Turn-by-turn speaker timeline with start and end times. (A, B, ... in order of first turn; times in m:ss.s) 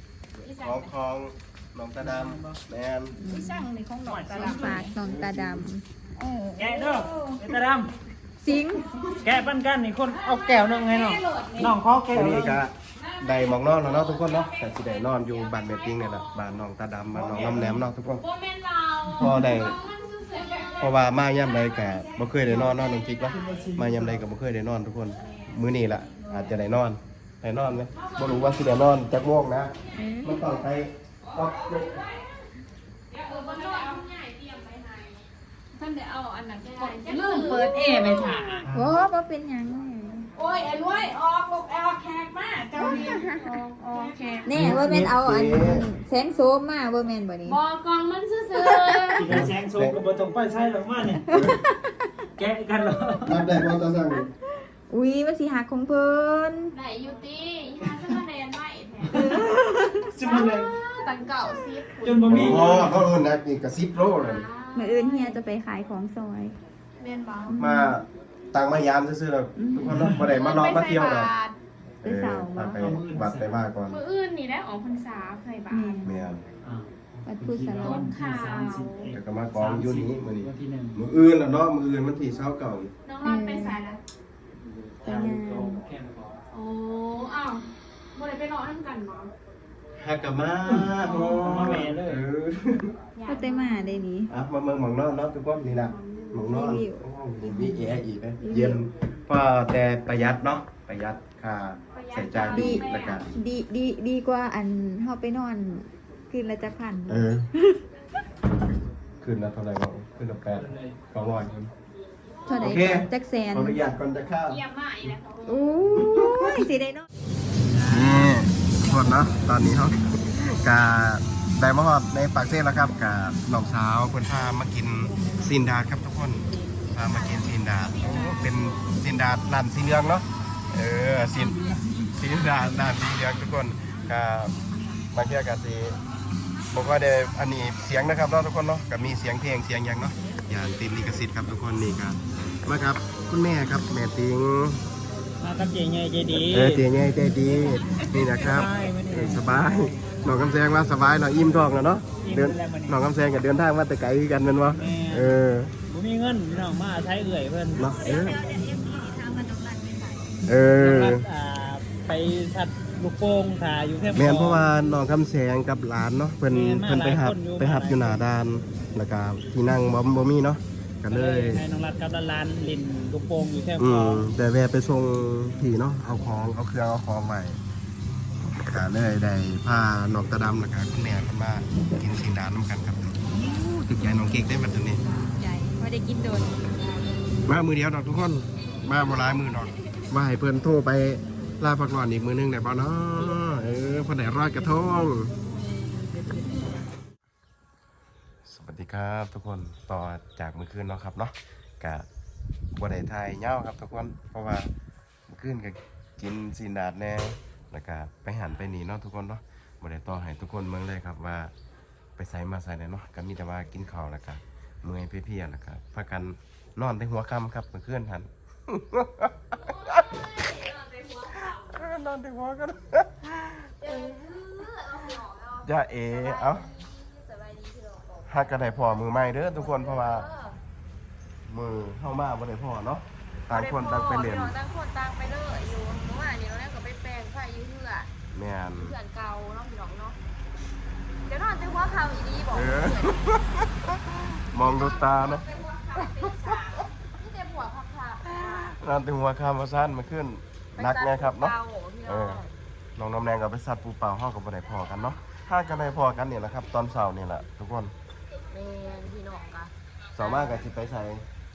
0:00.4-0:03.2 A
0:00.4-0:00.8 B
0:02.0-0:02.6 C
0:03.2-0:07.4 D
0:03.3-0:04.9 B
0:04.0-0:04.8 C
0:04.9-0:05.6 A
0:06.6-0:07.9 C
0:08.4-0:08.9 D
0:08.8-0:09.2 B
0:09.2-0:12.6 C
0:10.1-0:11.7 B
0:11.0-0:11.6 E
0:12.1-0:18.2 A
0:13.0-0:14.4 B
0:14.2-0:14.5 E
0:15.3-0:15.9 E
0:15.8-0:16.4 B
0:17.1-0:17.4 C
0:17.3-0:17.7 E
0:18.2-0:19.5 E
0:18.4-0:18.8 B
0:19.2-0:19.8 A
0:19.2-0:19.5 C
0:19.5-0:20.9 B
0:20.4-0:20.7 E
0:20.8-0:32.0 A
0:23.4-0:24.2 C
0:27.9-0:28.7 B
0:29.9-0:30.4 D
0:31.2-0:32.2 E
0:33.1-0:35.2 E
0:33.1-0:35.2 B
0:35.8-0:38.7 E
0:36.6-0:38.6 B
0:38.6-0:38.9 C
0:38.7-0:40.3 D
0:40.4-0:41.1 E
0:40.4-0:44.6 B
0:42.8-0:43.5 D
0:43.0-0:44.5 E
0:44.4-0:47.6 D
0:44.5-0:45.9 A
0:47.5-0:49.2 E
0:47.7-0:49.1 B
0:49.1-0:51.2 C
0:49.2-0:50.0 A
0:51.2-0:52.0 D
0:51.3-0:51.6 A
0:52.4-0:53.4 C
0:53.2-0:54.3 A
0:54.9-0:56.7 D
0:56.7-0:59.4 B
0:56.8-0:57.1 E
0:57.6-0:58.0 E
0:59.0-0:59.5 C
0:59.1-1:00.1 D
1:00.0-1:00.8 C
1:00.2-1:02.8 B
1:00.3-1:01.5 E
1:02.0-1:02.9 C
1:02.3-1:04.4 A
1:04.2-1:04.6 E
1:04.4-1:05.4 B
1:04.7-1:06.6 D
1:07.0-1:07.6 B
1:07.4-1:08.0 D
1:07.6-1:11.3 A
1:09.6-1:10.0 D
1:09.9-1:10.3 C
1:10.2-1:11.6 B
1:12.0-1:12.9 D
1:12.0-1:14.0 A
1:12.8-1:13.6 C
1:13.9-1:16.0 B
1:15.7-1:16.2 D
1:16.0-1:16.4 A
1:16.6-1:21.0 C
1:17.2-1:18.1 D
1:17.8-1:19.1 B
1:19.1-1:22.9 A
1:23.1-1:24.0 B
1:23.2-1:23.8 D
1:24.8-1:26.4 C
1:25.0-1:25.8 D
1:26.5-1:29.3 B
1:30.0-1:32.9 A
1:30.7-1:32.2 C
1:33.2-1:34.0 B
1:33.3-1:34.3 D
1:34.3-1:43.4 A
1:35.9-1:36.4 B
1:36.3-1:38.8 D
1:41.9-1:43.2 B
1:42.4-1:47.8 D
1:47.1-1:47.5 A
1:49.2-1:51.7 A
1:50.6-1:50.9 C
1:52.5-1:53.8 D
1:52.6-1:55.1 A
1:54.5-1:55.6 B
1:55.4-1:57.1 D
1:55.9-1:56.6 A
1:57.8-1:58.4 C
1:57.9-2:14.5 A
2:15.1-2:16.0 A
2:16.7-2:24.8 A
2:25.4-2:26.9 C
2:26.3-2:35.7 A
2:27.4-2:30.4 C
2:32.2-2:33.0 C
2:34.8-2:35.3 C
2:35.9-2:37.9 C
2:37.8-2:38.4 A
2:37.8-2:40.4 D
2:40.4-2:41.2 A
2:40.8-2:44.7 C
2:44.1-2:51.6 A
2:46.5-2:48.2 C
2:51.1-2:54.3 C
2:53.8-2:57.6 A
2:58.4-3:05.0 A
3:05.3-3:06.6 D
3:07.4-3:15.3 A
3:18.4-3:22.1 A
3:22.7-3:24.7 A
3:25.3-3:31.5 A
3:32.2-3:40.2 A
3:39.5-3:41.9 E
3:41.6-3:44.2 A
3:43.8-3:48.8 E
3:45.6-3:46.7 A
3:48.3-3:50.3 A
3:49.4-3:50.6 E
3:51.5-3:54.6 A
3:53.5-3:58.1 E
3:58.3-3:58.9 A
3:58.8-4:00.2 E
4:01.3-4:03.2 E
4:02.5-4:03.6 A
4:04.5-4:06.8 A
4:04.6-4:08.8 E
4:08.3-4:12.4 A
4:10.8-4:12.5 E
4:13.0-4:17.9 A
4:18.5-4:20.6 E
4:20.2-4:21.2 A